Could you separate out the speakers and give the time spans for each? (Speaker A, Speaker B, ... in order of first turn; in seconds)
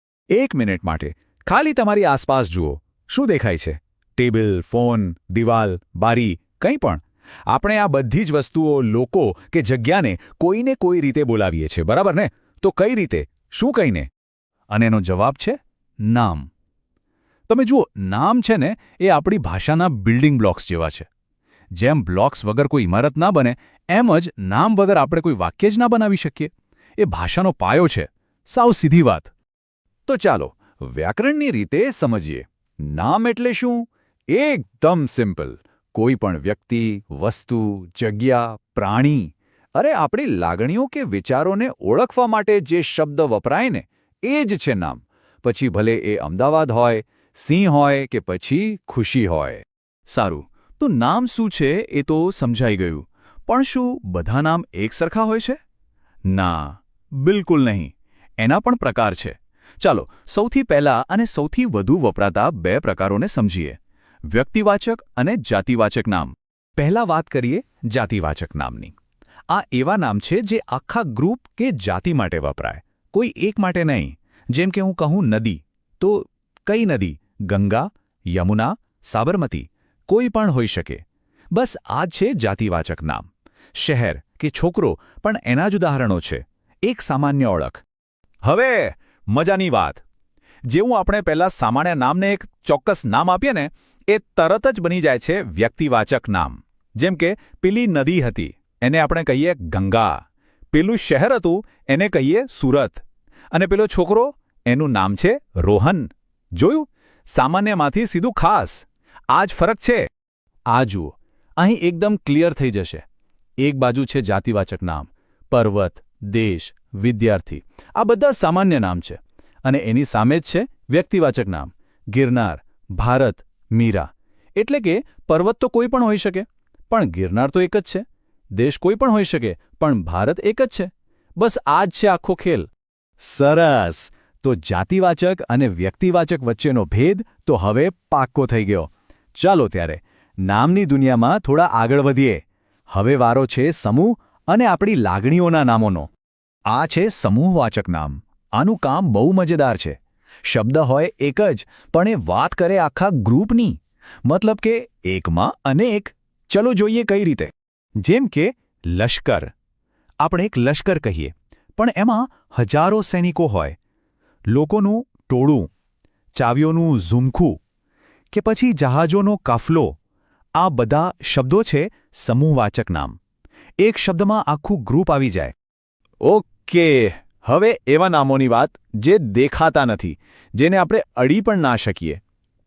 Speaker A: 0.3-14.1, 14.7-16.5, 17.5-21.1, 21.7-29.3, 30.1-55.6, 56.3-68.9, 69.5-87.8, 88.4-90.0, 90.7-100.2, 100.7-110.0, 110.7-113.0, 113.6-128.0, 128.6-132.7, 133.2-146.1, 146.7-159.5, 160.2-163.8, 164.5-165.7, 166.3-167.6, 168.3-170.0, 170.6-173.2, 173.8-175.5, 176.2-182.2